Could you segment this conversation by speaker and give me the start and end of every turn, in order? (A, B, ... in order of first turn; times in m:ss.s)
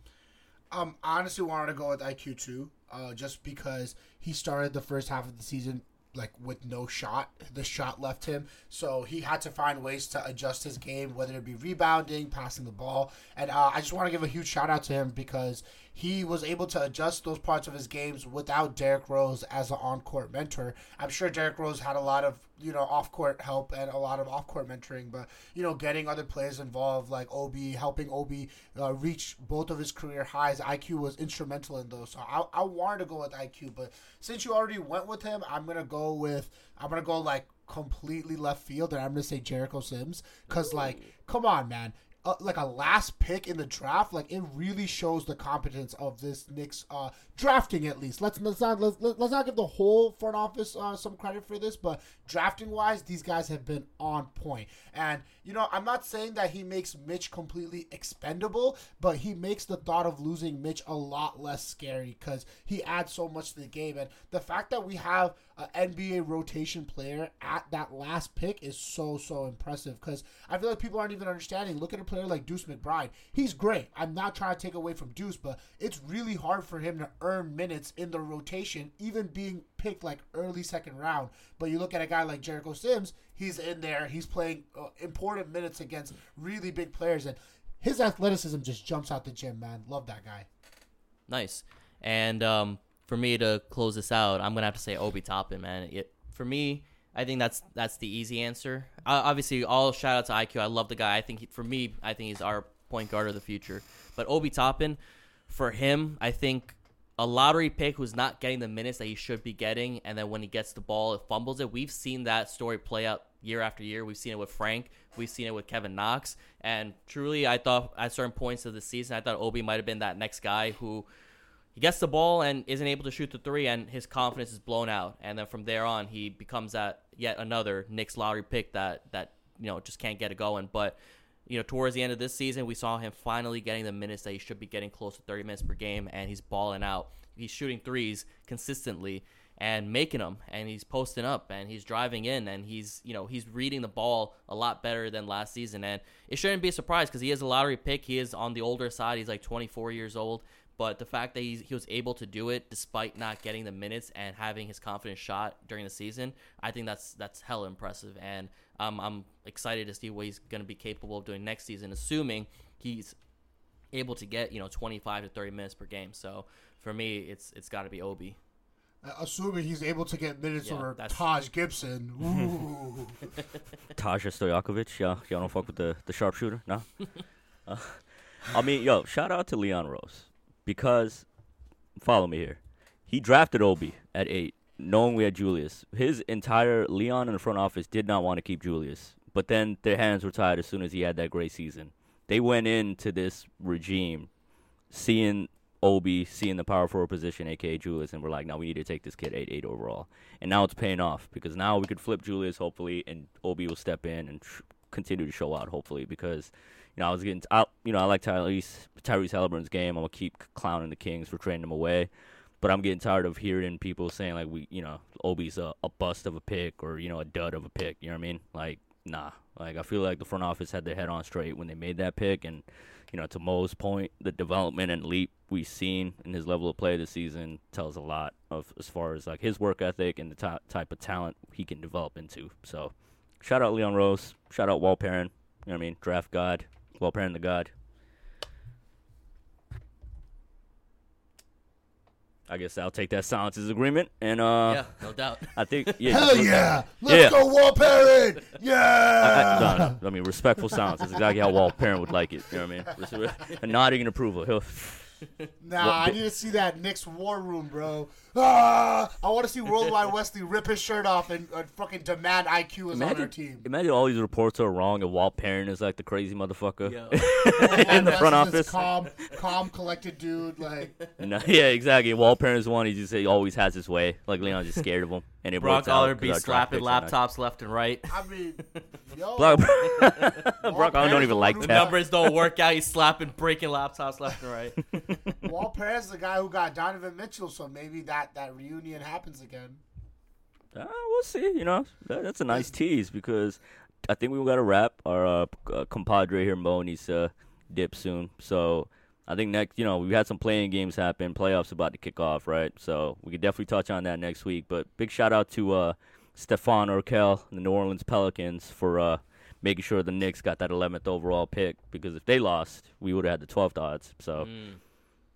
0:00.7-1:30.5 A
1:31.3-2:01.1 B
2:01.8-2:43.2 B
2:43.9-2:48.4 B
2:49.0-2:53.3 A
2:50.6-2:51.2 B
2:54.0-2:57.1 C
2:57.7-3:01.2 C
3:02.0-3:14.3 C
3:14.9-3:32.1 C
3:32.6-3:57.7 C
4:02.5-4:07.5 C
4:04.7-4:06.0 B
4:06.1-4:10.0 A
4:09.2-4:15.3 C
4:10.8-4:11.0 A
4:15.6-4:23.7 A
4:15.8-4:16.2 C
4:22.9-4:28.8 C
4:26.9-4:28.3 B
4:27.6-4:31.0 A
4:31.2-4:37.2 C
4:35.6-4:38.9 B
4:38.1-4:42.0 A
4:39.4-4:42.3 C
4:40.0-4:40.5 B
4:41.6-4:44.9 B
4:45.1-4:45.4 C
4:45.4-4:49.8 A
4:50.8-5:14.5 C
5:14.4-5:14.8 B